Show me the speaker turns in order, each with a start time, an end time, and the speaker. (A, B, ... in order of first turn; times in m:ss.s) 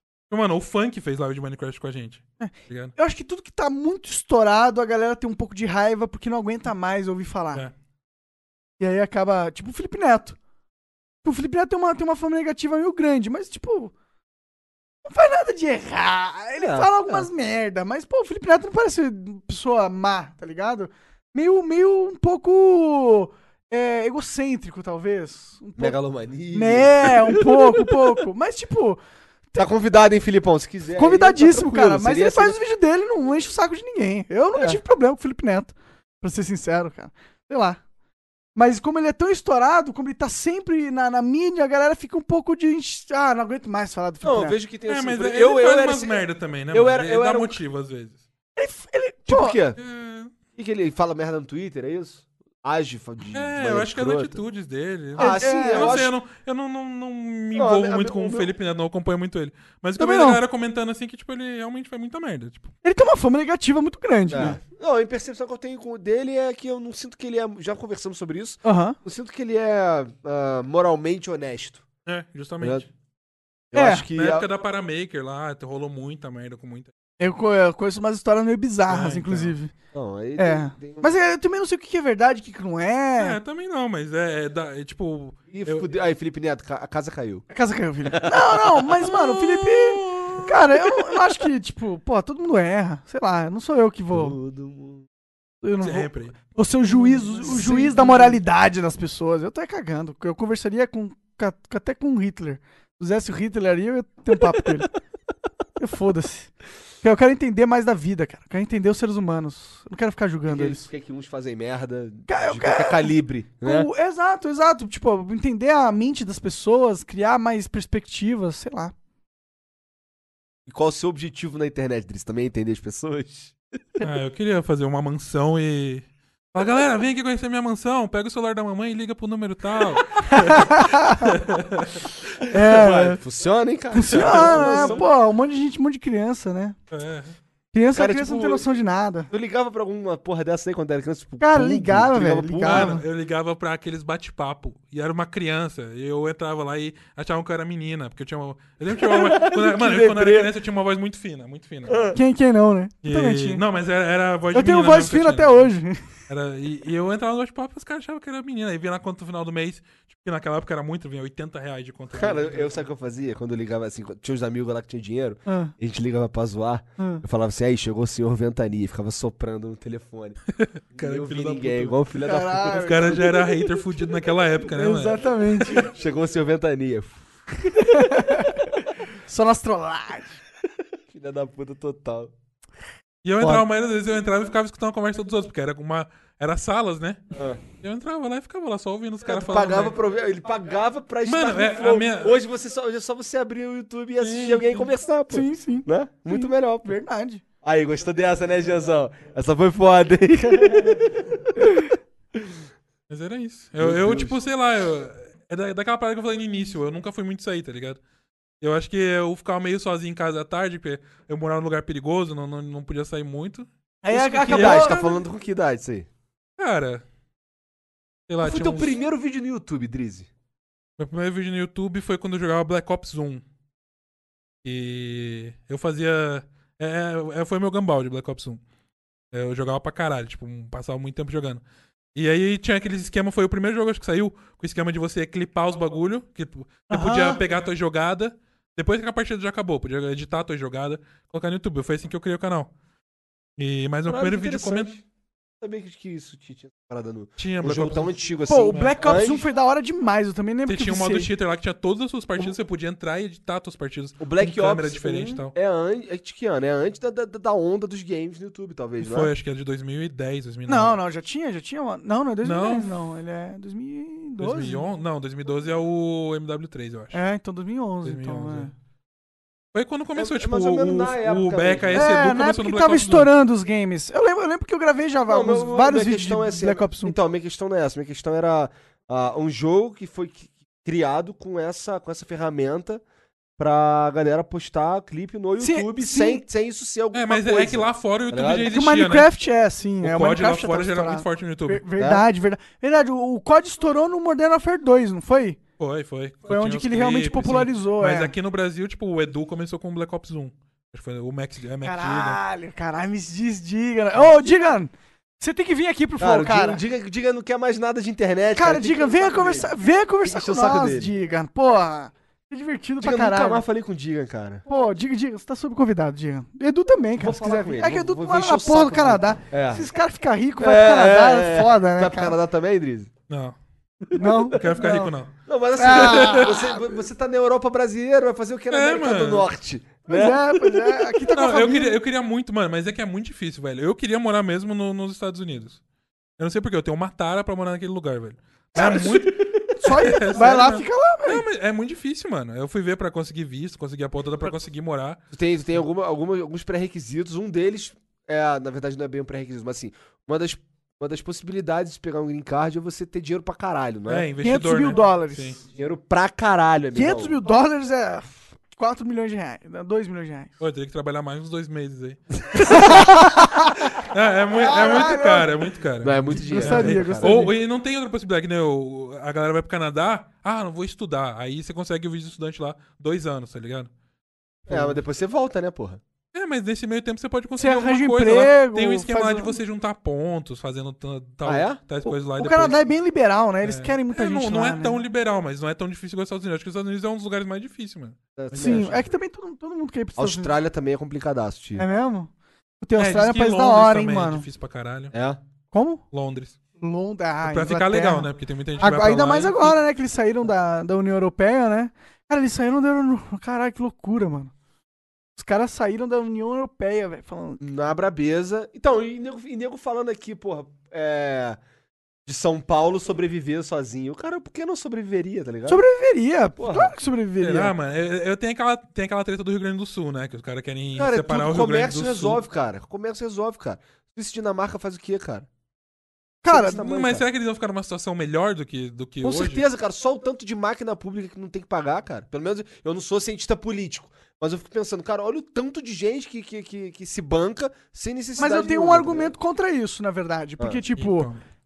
0:00.3-0:02.9 A
0:02.4-0:07.6 B
0:08.8-0:10.4 B
0:11.2-0:13.9 B
0:15.0-0:26.0 B
0:16.6-0:17.3 C
0:25.8-0:27.9 C
0:26.5-0:29.0 B
0:29.6-0:32.6 C
0:31.0-0:37.8 B
0:38.5-0:44.6 B
0:44.2-0:47.6 C
0:44.9-0:48.2 A
0:48.6-0:49.6 B
0:49.3-0:49.8 C
0:49.8-0:50.3 A
0:50.6-0:54.4 C
0:53.3-1:02.7 A
0:55.2-0:56.1 C
0:55.2-0:56.0 B
0:57.5-0:58.5 C
1:00.0-1:00.4 B
1:02.8-1:04.6 B
1:04.3-1:11.8 C
1:08.6-1:09.0 B
1:12.0-1:12.9 A
1:13.7-1:14.5 C
1:13.7-1:14.0 B
1:14.1-1:16.9 A
1:17.2-1:19.7 B
1:18.9-1:19.6 A
1:19.9-1:21.1 C
1:20.4-1:23.4 B
1:23.2-1:25.9 A
1:25.5-1:27.4 C
1:27.5-1:34.4 B
1:28.1-1:28.6 C
1:29.0-1:30.5 A
1:34.1-1:35.1 C
1:35.6-1:44.9 B
1:35.8-1:36.4 A
1:37.0-1:38.0 A
1:37.4-1:38.3 C
1:45.8-1:46.5 B
1:47.0-1:50.9 B
1:50.5-1:53.9 C
1:52.3-1:58.9 B
2:00.6-2:03.6 C
2:04.0-2:12.0 A
2:10.3-2:11.3 B
2:12.5-2:13.2 B
2:12.5-2:15.0 C
2:13.9-2:16.8 B
2:14.1-2:15.0 A
2:16.9-2:17.4 A
2:17.7-2:19.3 B
2:17.9-2:18.6 C
2:19.3-2:23.0 C
2:21.4-2:23.0 B
2:22.6-2:32.1 A
2:28.9-2:30.5 C
2:31.9-2:32.2 C
2:32.1-2:33.6 B
2:33.0-2:35.7 A
2:34.5-2:36.0 B
2:36.3-2:42.7 A
2:42.1-2:50.4 C
2:45.4-2:45.7 B
2:47.0-2:47.2 B
2:50.6-2:52.0 A
2:50.9-2:53.4 C
2:52.2-2:53.4 B
2:52.7-2:55.9 A
2:54.7-2:55.9 B
2:55.7-2:58.3 C
2:57.8-2:58.6 B
2:59.2-3:00.4 B
3:01.1-3:02.3 C
3:03.2-3:07.2 A
3:07.3-3:07.6 C
3:07.8-3:10.0 A
3:09.2-3:17.0 C
3:11.2-3:12.4 A
3:14.2-3:14.9 A
3:15.3-3:17.4 B
3:17.6-3:21.7 C
3:23.1-3:28.0 A
3:23.8-3:24.4 C
3:28.6-3:33.7 A
3:34.0-3:35.0 B
3:34.1-3:36.1 C
3:34.5-3:35.2 A
3:36.6-3:37.0 A
3:38.3-3:39.0 A
3:38.4-3:40.3 C
3:41.0-3:43.4 A
3:44.6-3:48.6 A
3:49.3-3:51.6 A
3:52.1-4:02.7 A
3:56.9-3:57.4 B
4:03.6-4:04.9 A
4:04.0-4:05.0 C
4:05.6-4:09.4 C
4:07.4-4:09.0 A
4:08.5-4:11.3 B
4:10.7-4:15.5 A
4:14.2-4:19.3 C
4:19.0-4:21.0 A
4:20.7-4:24.8 B
4:22.4-4:22.9 A
4:24.4-4:27.2 A
4:27.1-4:28.7 B
4:28.0-4:28.7 A
4:29.7-4:33.3 A
4:30.2-4:32.2 C
4:31.9-4:37.2 B
4:35.3-4:43.0 C
4:43.6-4:48.7 C
4:45.6-4:46.4 B
4:47.1-4:49.3 A
4:48.6-4:55.6 B
4:50.0-4:51.8 A
4:52.0-4:52.2 C
4:55.8-5:02.4 A
4:56.5-4:58.3 B
5:01.8-5:06.8 B
5:06.2-5:11.1 C
5:08.5-5:13.6 B
5:13.0-5:14.6 C
5:14.7-5:22.4 B
5:17.2-5:19.9 C
5:20.6-5:23.1 C
5:23.3-5:23.6 A
5:24.1-5:25.1 B
5:24.2-5:31.0 C
5:24.5-5:25.3 A
5:25.8-5:26.5 B
5:25.9-5:26.5 A
5:28.7-5:29.5 A
5:30.1-5:32.0 B
5:31.3-5:35.8 A
5:36.4-5:45.2 A
5:38.8-5:39.6 C
5:39.8-5:41.4 B
5:45.3-5:54.3 C
5:54.1-5:55.6 A
5:54.4-5:55.6 B
5:55.7-5:57.4 C
5:56.9-6:00.5 B
6:00.6-6:03.1 A
6:02.6-6:03.7 B
6:03.9-6:13.9 A
6:04.5-6:05.5 B
6:06.0-6:07.4 C
6:06.3-6:07.5 B
6:14.7-6:16.0 C
6:16.3-6:22.8 A
6:17.6-6:19.5 B
6:21.4-6:21.8 C
6:22.0-6:25.0 B
6:23.6-6:28.9 A
6:28.4-6:29.1 C
6:28.5-6:30.5 B
6:30.2-6:31.8 C
6:31.8-6:34.4 B
6:33.0-6:35.1 A
6:35.1-6:35.4 C
6:35.7-6:36.0 B
6:36.1-6:36.6 A
6:36.8-6:44.5 B
6:37.4-6:39.8 A
6:45.4-6:47.6 B
6:47.6-6:51.6 C
6:52.2-6:55.8 C
6:55.7-6:57.7 B
6:56.6-6:56.9 C
6:57.4-7:02.4 A
7:01.0-7:05.5 C
7:06.4-7:06.8 B
7:06.5-7:07.2 C
7:06.8-7:09.6 A
7:09.2-7:19.3 C
7:18.4-7:21.3 B
7:21.0-7:21.4 A